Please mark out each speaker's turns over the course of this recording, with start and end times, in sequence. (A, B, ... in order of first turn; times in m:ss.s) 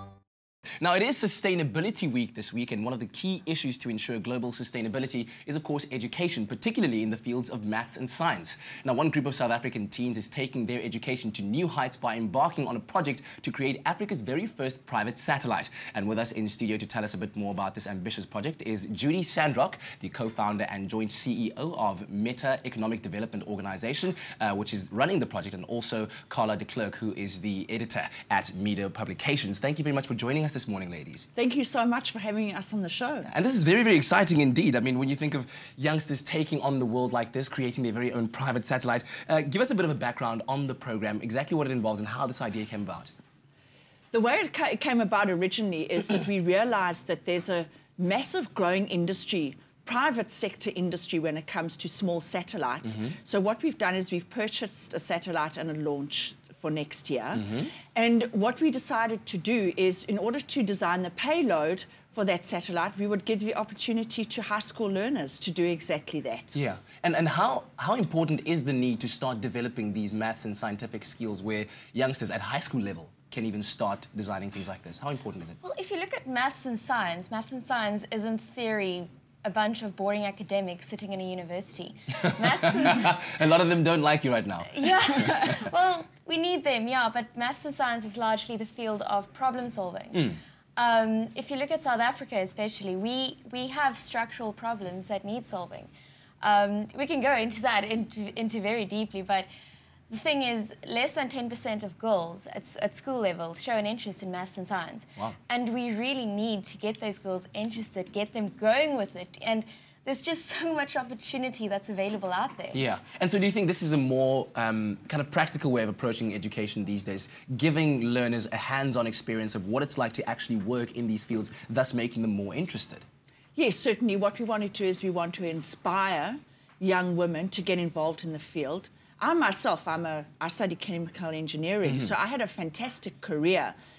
0:00.8-0:31.3 A
0:31.4-0:33.3 B
0:33.3-0:43.1 A
0:44.1-1:06.6 B
1:06.5-1:15.6 A
1:15.6-1:23.4 C
1:22.6-1:25.5 A
1:24.7-1:35.9 C
1:36.4-1:39.5 C
1:40.1-1:52.8 C
1:52.7-2:03.0 A
2:03.6-2:13.8 B